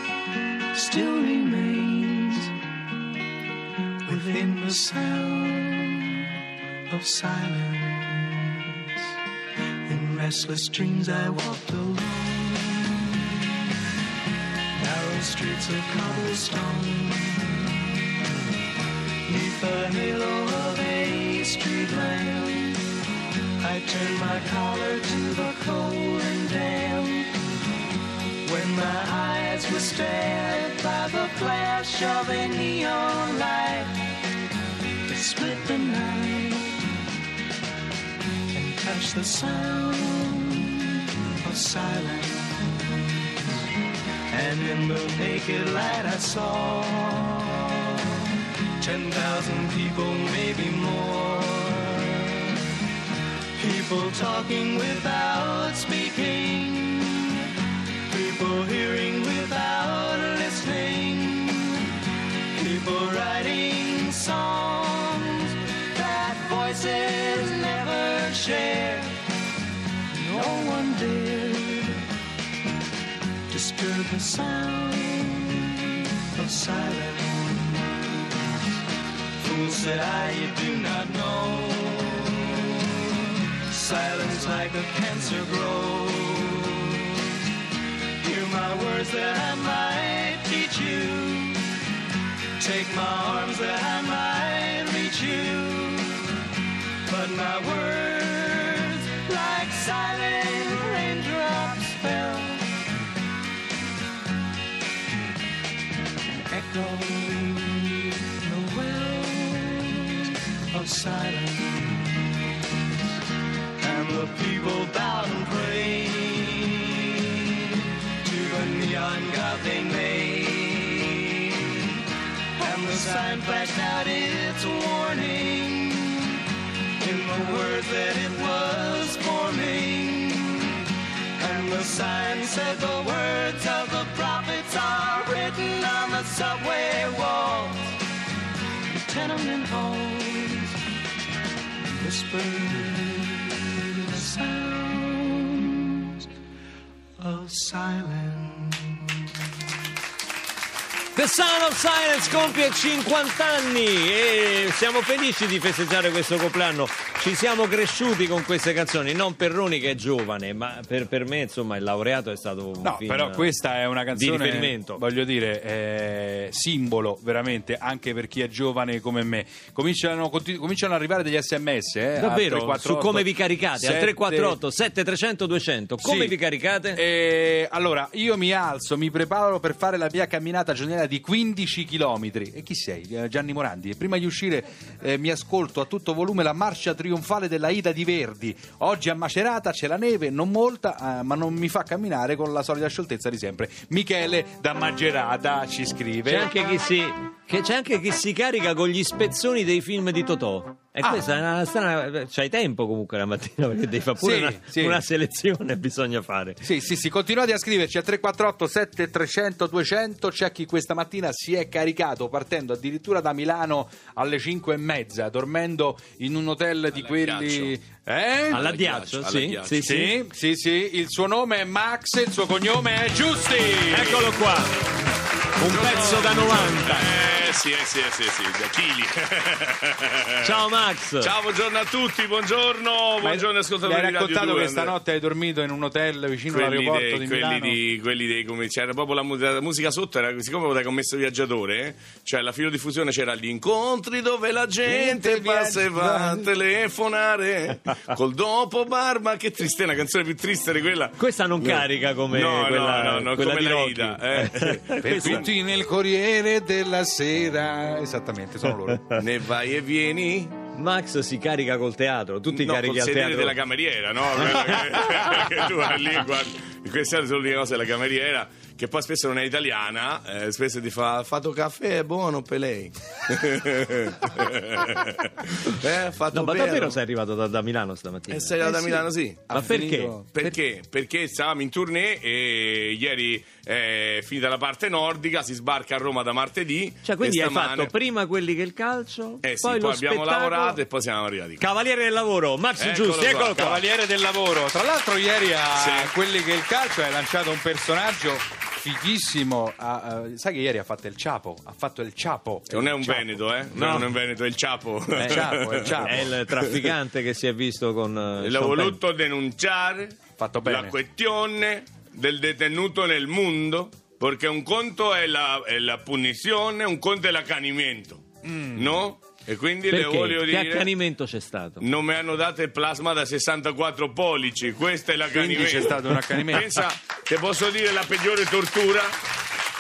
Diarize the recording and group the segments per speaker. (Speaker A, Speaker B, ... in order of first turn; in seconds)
Speaker A: 0.7-2.5, 4.0-6.3, 6.9-8.8, 9.9-13.1, 14.8-17.8, 19.3-22.8, 23.6-27.3, 28.4-33.9, 35.1-36.8, 38.5-42.6, 44.3-47.8, 48.8-52.5, 53.6-57.3, 58.1-61.8, 62.6-69.0, 70.2-71.9, 73.7-77.9, 79.4-82.5, 83.4-87.0, 88.2-91.2, 92.6-95.7, 97.1-102.3, 106.5-110.1, 110.7-112.0, 113.8-116.8, 118.0-121.2, 122.6-126.4, 127.0-130.6, 131.4-137.7, 139.1-140.6, 142.0-145.7, 147.2-148.9
Speaker B: 59.8-60.2, 62.8-63.4, 66.5-69.0, 80.1-81.8, 84.5-86.2, 88.5-91.5, 92.6-96.0, 97.5-102.5, 108.5-109.2, 114.7-115.8, 119.1-120.4, 122.9-125.8, 127.2-130.2, 131.4-137.7, 139.5-140.3, 142.1-142.8, 151.1-163.5, 164.1-165.0, 172.2-177.0, 196.2-206.6, 218.5-220.1, 223.9-224.7, 225.6-227.1, 230.4-231.3, 251.2-255.4, 260.7-263.6, 276.3-278.9, 279.5-280.5, 287.0-290.8, 291.6-293.8, 303.7-304.1, 305.2-309.0, 319.9-321.8
Speaker C: 162.8-174.6, 176.0-176.4, 176.9-196.5, 204.2-205.0, 206.6-218.7, 219.8-224.3, 233.2-237.8, 244.8-246.5, 255.0-259.1, 279.5-280.3, 293.6-303.9, 305.1-306.3, 310.4-310.9, 318.4-319.1, 325.3-326.8
Speaker D: 216.9-217.8, 218.5-219.9, 225.7-230.7, 231.2-235.0, 236.5-255.4, 259.1-260.6, 262.5-277.0, 278.3-279.7, 280.3-287.9, 289.4-291.7, 292.8-293.8, 295.8-296.1, 302.7-306.9, 308.4-318.2, 318.7-320.9, 321.8-329.1